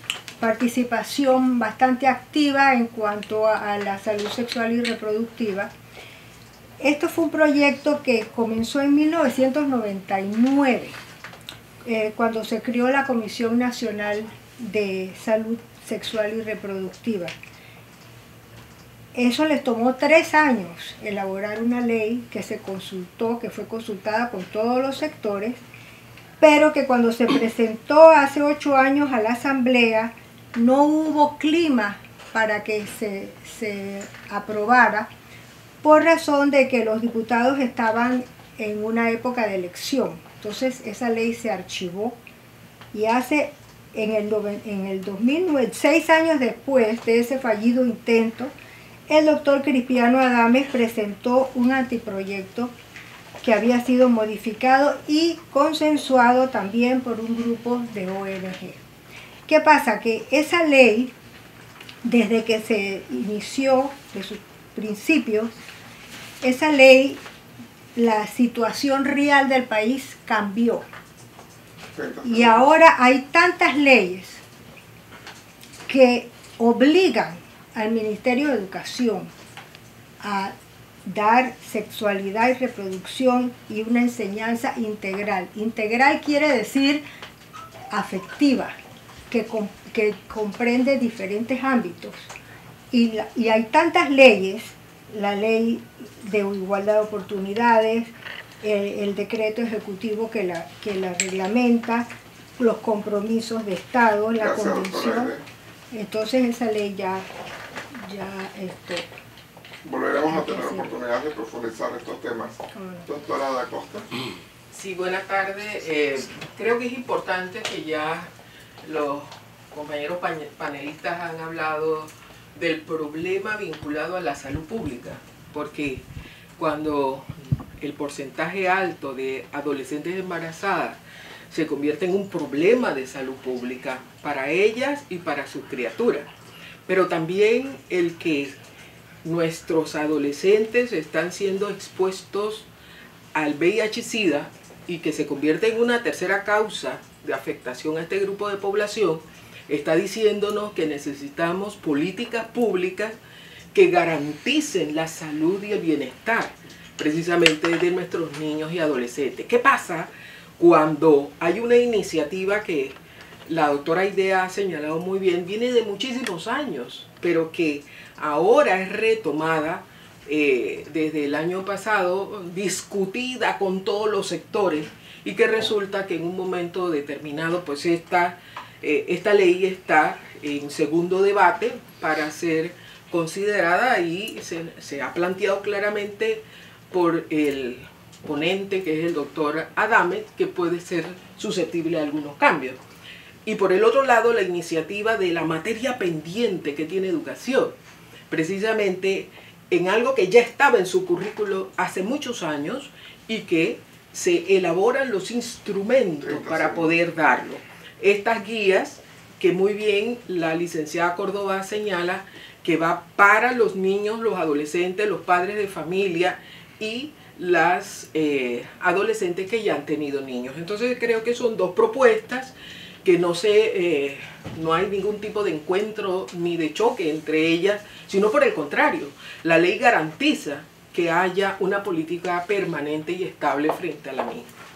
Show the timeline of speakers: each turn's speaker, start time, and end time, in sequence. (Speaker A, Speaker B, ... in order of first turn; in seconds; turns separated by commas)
Speaker A: 0.4-5.7, Speaker A: 6.8-11.0, Speaker A: 11.8-17.3, Speaker A: 19.1-25.6, Speaker A: 26.4-35.1, Speaker A: 35.8-42.2, Speaker A: 42.9-48.5, Speaker A: 49.1-52.7, Speaker A: 53.4-58.8, Speaker A: 59.5-61.1, Speaker A: 62.0-65.6, Speaker A: 66.4-67.2, Speaker A: 68.0-70.8, Speaker B: 71.9-72.7, Speaker A: 72.2-74.4, Speaker A: 75.9-79.3, Speaker A: 80.2-80.5, Speaker A: 81.0-87.0, Speaker A: 87.9-88.8, Speaker A: 89.3-92.3, Speaker A: 92.9-105.3, Speaker B: 104.4-105.4, Speaker A: 105.9-107.3, Speaker A: 107.9-109.0, Speaker B: 109.8-114.1, Speaker A: 110.3-111.0, Speaker A: 112.7-113.0, Speaker C: 114.7-118.3, Speaker C: 118.8-126.0, Speaker C: 126.6-136.3, Speaker C: 136.9-138.6, Speaker C: 139.2-142.7, Speaker C: 143.3-153.2, Speaker C: 153.7-192.8, Speaker C: 193.4-197.8, Speaker C: 198.3-234.5, Speaker B: 206.2-206.9